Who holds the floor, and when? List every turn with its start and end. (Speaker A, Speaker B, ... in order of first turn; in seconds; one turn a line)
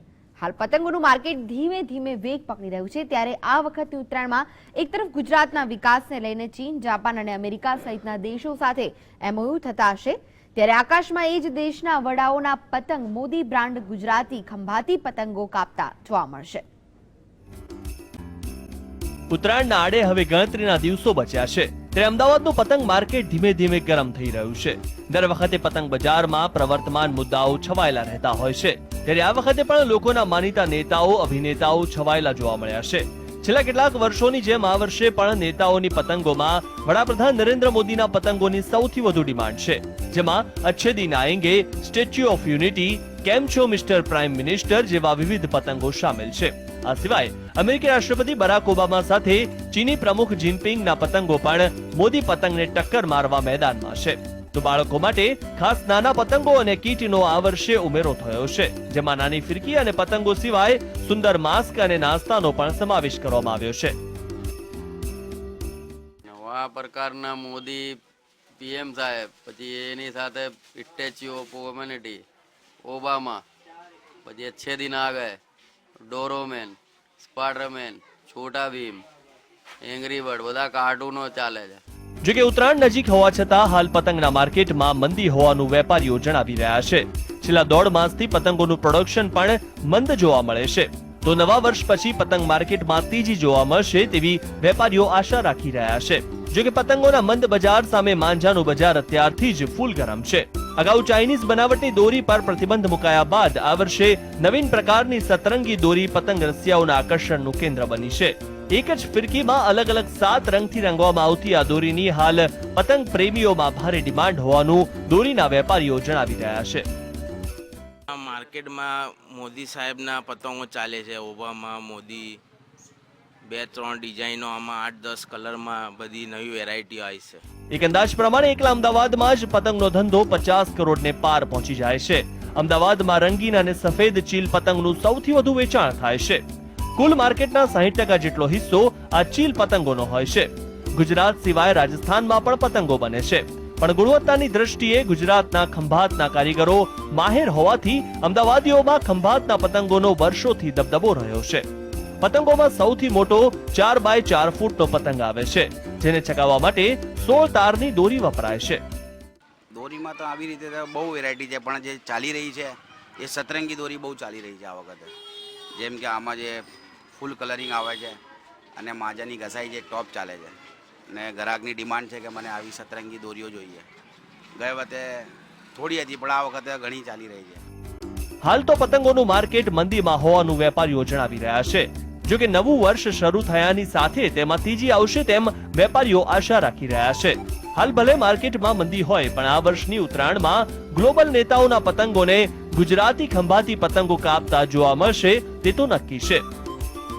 Speaker A: 0.4-16.6
Speaker B: 19.3-64.0
Speaker C: 66.3-68.0
Speaker C: 68.6-72.2
Speaker C: 72.8-73.4
Speaker C: 74.2-75.4
Speaker C: 76.0-79.0
Speaker C: 79.8-81.8
Speaker B: 82.2-116.9
Speaker D: 118.1-122.4
Speaker D: 123.5-127.4
Speaker B: 127.7-136.4
Speaker B: 137.0-151.6
Speaker B: 152.2-158.8
Speaker E: 159.7-165.1
Speaker E: 165.8-166.6
Speaker E: 167.2-168.2
Speaker E: 168.8-170.6
Speaker E: 171.1-173.9
Speaker E: 174.6-177.6
Speaker B: 178.4-196.4